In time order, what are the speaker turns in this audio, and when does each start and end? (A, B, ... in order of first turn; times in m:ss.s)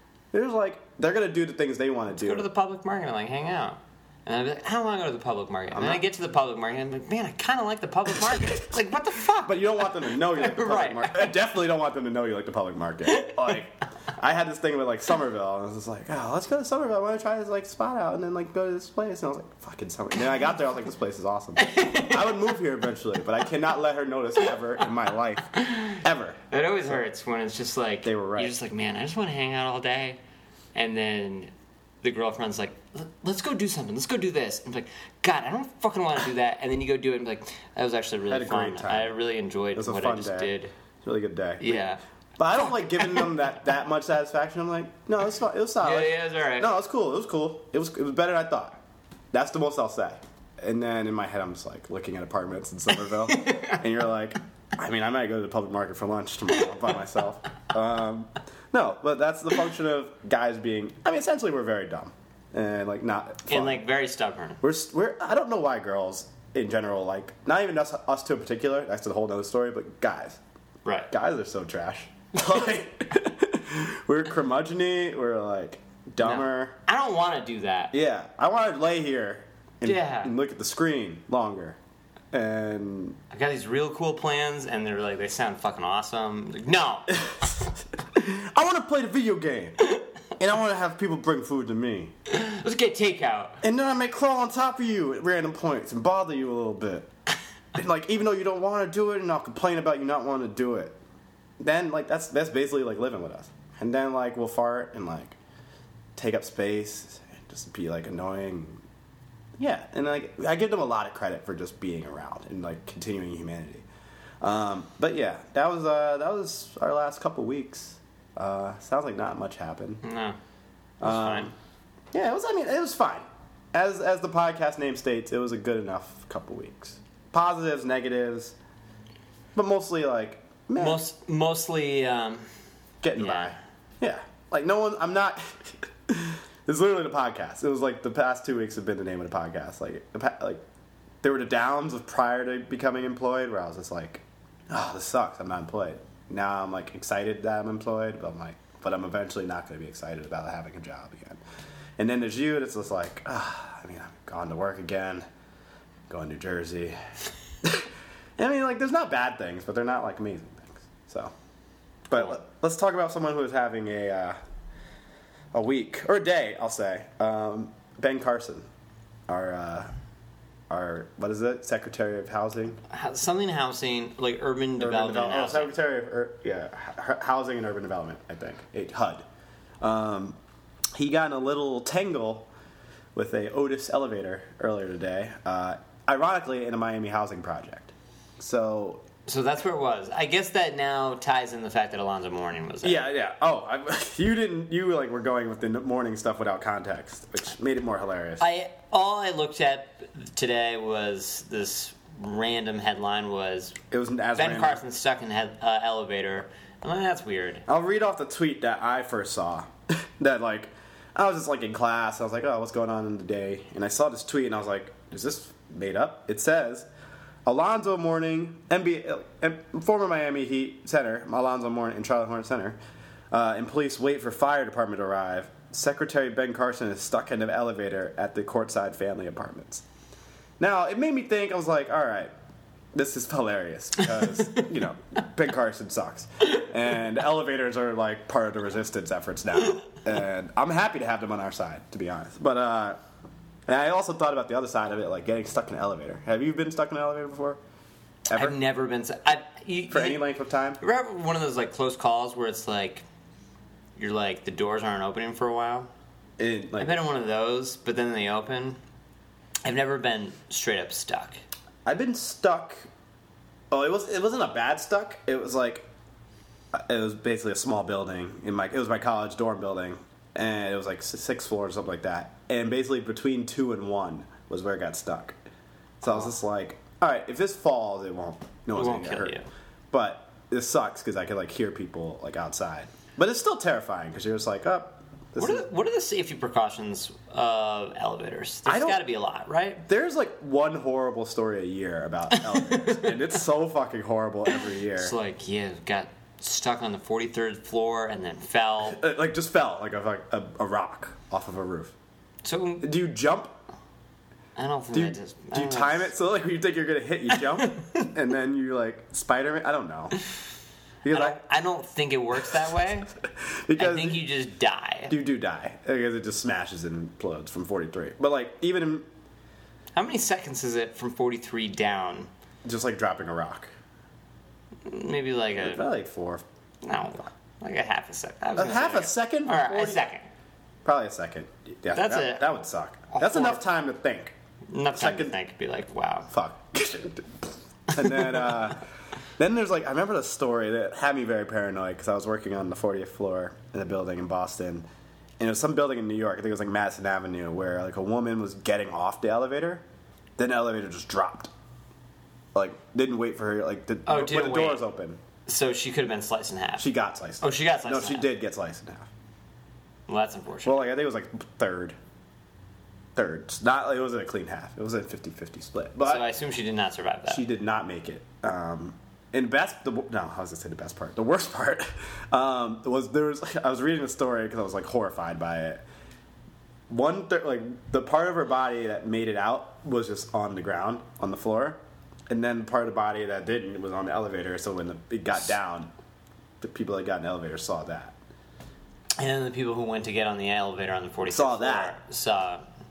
0:00.3-0:02.4 A
0:02.1-0:11.3 B
0:05.7-0:06.0 A
0:09.4-0:27.0 A
0:13.1-0:13.4 B
0:21.6-0:22.5 B
0:25.6-0:26.0 B
0:26.5-0:30.2 B
0:28.0-0:28.6 A
0:30.7-0:40.7 B
0:38.3-0:39.2 A
0:39.7-0:41.8 A
0:41.6-0:42.0 B
0:42.4-0:48.8 A
0:45.8-0:46.7 B
0:49.3-1:03.8 A
0:53.3-0:53.8 B
1:03.5-1:04.6 B
1:04.6-1:10.4 A
1:10.8-1:11.1 B
1:11.1-1:16.8 A
1:16.2-1:17.9 B
1:17.9-1:21.8 A
1:19.8-1:20.3 B
1:22.3-1:23.2 A
1:23.3-1:27.2 B
1:27.1-1:29.8 A
1:30.4-1:32.1 A
1:32.3-1:33.6 B
1:33.6-1:37.1 A
1:37.7-1:41.0 A
1:41.6-1:45.4 A
1:46.2-1:48.8 A
1:49.6-1:53.8 A
1:54.4-2:00.0 A
2:00.0-2:00.4 B
2:01.0-2:01.5 A
2:01.0-2:01.5 B
2:02.1-2:08.6 A
2:09.5-2:11.0 A
2:10.8-2:12.5 B
2:13.0-2:20.6 A
2:13.2-2:13.6 B
2:21.2-2:31.4 A
2:32.0-2:35.2 A
2:36.1-2:37.0 A
2:37.6-2:41.3 A
2:42.1-2:44.4 A
2:45.5-2:48.6 A
2:49.3-2:49.9 A
2:50.7-2:52.8 A
2:52.9-2:55.7 B
2:54.8-2:59.2 A
2:59.8-3:00.4 A
3:00.9-3:02.5 A
3:03.1-3:09.0 A
3:09.2-3:13.1 B
3:12.8-3:18.4 A
3:18.4-3:23.8 B
3:23.9-3:24.8 A
3:24.3-3:27.6 B
3:27.7-3:36.9 A
3:37.4-3:42.8 A
3:43.3-3:49.8 A
3:50.6-3:52.3 A
3:52.9-4:03.0 A
4:03.7-4:07.6 A
4:08.3-4:08.6 A
4:08.3-4:10.2 B
4:09.9-4:10.8 A
4:10.8-4:13.0 B
4:14.0-4:15.9 B
4:16.4-4:17.0 A
4:16.8-4:18.8 B
4:19.6-4:21.4 B
4:21.8-4:22.8 A
4:23.7-4:25.8 A
4:26.7-4:35.4 A
4:36.0-4:39.4 A
4:38.7-4:39.5 B
4:39.9-4:45.6 A
4:45.4-4:49.8 B
4:48.6-4:49.0 A
4:49.8-4:55.1 A
4:52.3-4:53.3 B
4:54.9-4:59.0 B
4:58.8-5:01.9 A
5:02.4-5:02.9 B
5:02.8-5:03.5 A
5:04.6-5:06.1 B
5:04.9-5:10.2 A
5:07.3-5:08.1 B
5:11.0-5:11.4 A
5:11.1-5:13.1 B
5:13.3-5:14.2 A
5:13.7-5:15.1 B
5:15.1-5:19.0 A
5:20.0-5:22.3 B
5:22.6-5:23.7 A
5:24.8-5:25.8 B
5:25.6-5:26.4 A
5:26.8-5:30.3 B
5:28.6-5:30.0 A
5:30.8-5:34.3 A
5:31.9-5:32.5 B
5:33.1-5:33.6 B
5:34.7-5:36.3 B
5:34.9-5:35.4 A
5:36.3-5:38.8 A
5:38.0-5:38.5 B
5:39.4-5:44.8 A
5:45.4-5:49.8 A
5:50.4-5:51.5 A
5:52.5-5:55.2 A
5:54.0-5:54.8 B
5:55.5-5:56.9 B
5:56.8-5:59.1 A
5:57.4-5:58.3 B
6:00.1-6:00.8 B
6:00.6-6:02.0 A
6:03.1-6:06.3 A
6:06.0-6:07.4 B
6:07.3-6:15.8 A
6:16.9-6:21.8 A
6:22.3-6:25.9 A
6:26.6-6:28.2 A
6:29.2-6:32.6 B
6:31.3-6:31.9 A